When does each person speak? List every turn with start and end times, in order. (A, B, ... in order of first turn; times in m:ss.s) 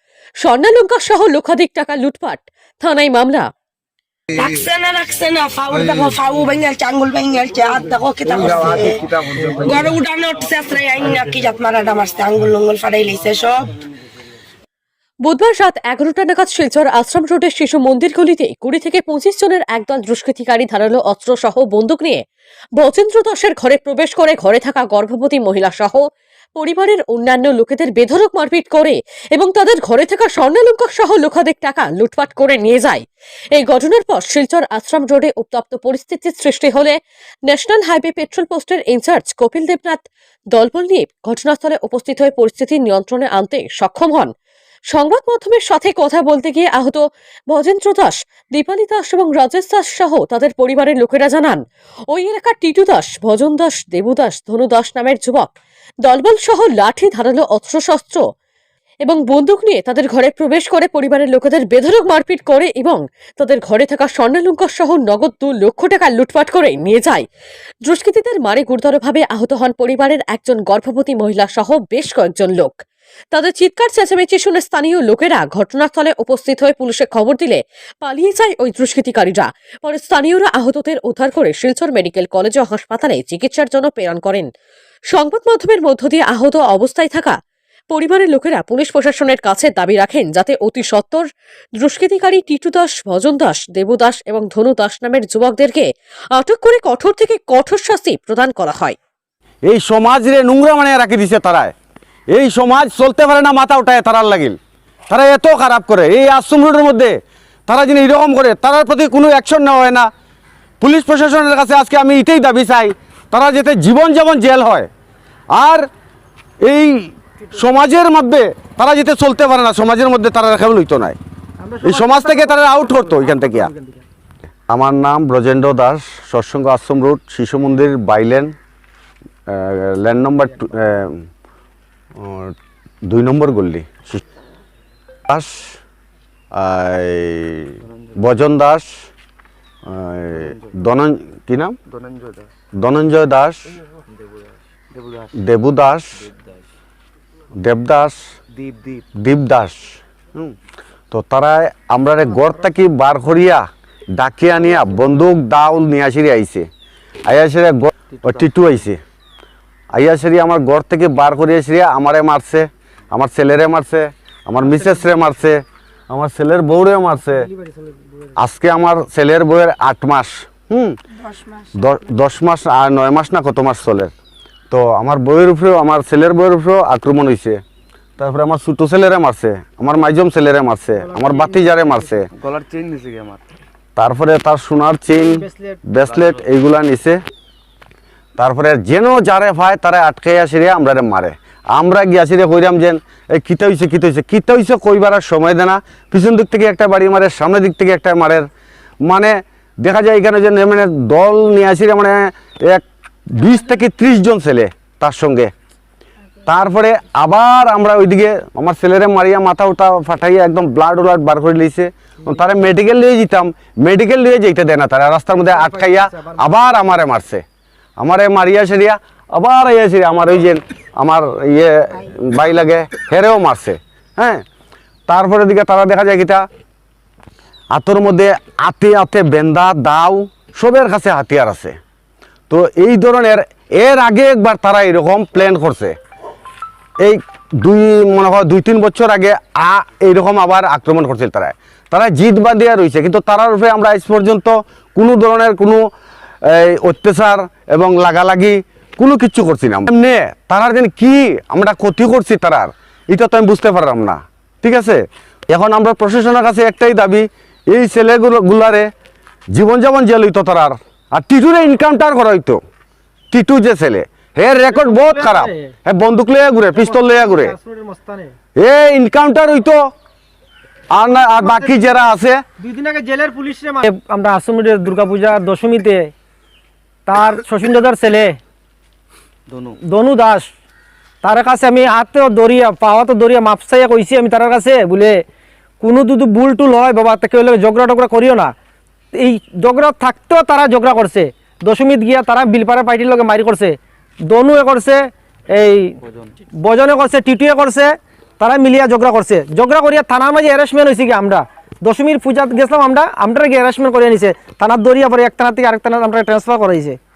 0:00.4-0:03.5 A
0:04.3-0:13.7 B
0:15.2-0:22.2 A
0:22.8-0:26.0 A
0:26.6-0:33.0 A
0:33.6-0:36.9 A
0:37.5-0:44.3 A
0:44.9-0:51.6 A
0:52.1-0:55.5 A
0:56.0-0:58.2 A
0:59.0-1:07.2 A
1:07.8-1:12.8 A
1:13.3-1:24.5 A
1:25.1-1:27.3 A
1:27.9-1:31.3 A
1:31.8-1:39.0 A
1:39.7-1:41.7 C
1:42.3-1:44.6 C
1:45.1-1:50.1 C
1:50.8-1:54.9 C
1:55.5-1:55.9 C
1:56.6-2:01.2 C
2:01.6-2:04.0 D
2:01.8-2:03.7 C
2:04.7-2:08.5 C
2:09.5-2:11.2 C
2:12.2-2:14.2 C
2:15.3-2:15.8 C
2:16.5-2:18.9 C
2:17.8-2:18.3 E
2:19.8-2:21.8 C
2:20.4-2:20.8 E
2:21.9-2:22.5 E
2:22.7-2:23.8 C
2:24.9-2:25.3 E
2:25.3-2:26.3 C
2:27.6-2:28.2 C
2:28.5-2:29.0 E
2:29.1-2:30.5 C
2:31.1-2:33.7 C
2:34.2-2:36.7 C
2:37.3-2:39.0 C
2:39.9-2:47.5 C
2:48.4-2:51.0 C
2:51.7-2:54.1 C
2:54.7-2:57.6 C
2:58.2-3:02.3 C
3:00.9-3:02.2 D
3:02.3-3:03.4 E
3:04.0-3:07.2 C
3:05.2-3:05.8 D
3:08.4-3:18.5 C
3:19.0-3:25.5 C
3:26.4-3:37.4 C
3:38.0-3:44.4 C
3:45.1-3:46.4 C
3:47.7-3:51.8 C
3:52.5-3:55.9 C
3:57.0-4:05.8 C
4:06.4-4:18.9 C
4:19.5-4:22.6 C
4:23.3-4:27.5 C
4:24.7-4:25.7 D
4:26.7-4:28.3 D
4:28.6-4:29.9 C
4:30.9-4:32.4 C
4:31.4-4:31.8 D
4:32.6-4:36.1 D
4:37.1-4:38.4 D
4:39.5-4:39.8 E
4:39.8-4:40.5 D
4:41.2-4:45.2 D
4:45.8-4:48.5 D
4:49.1-4:55.9 D
4:56.6-5:07.0 D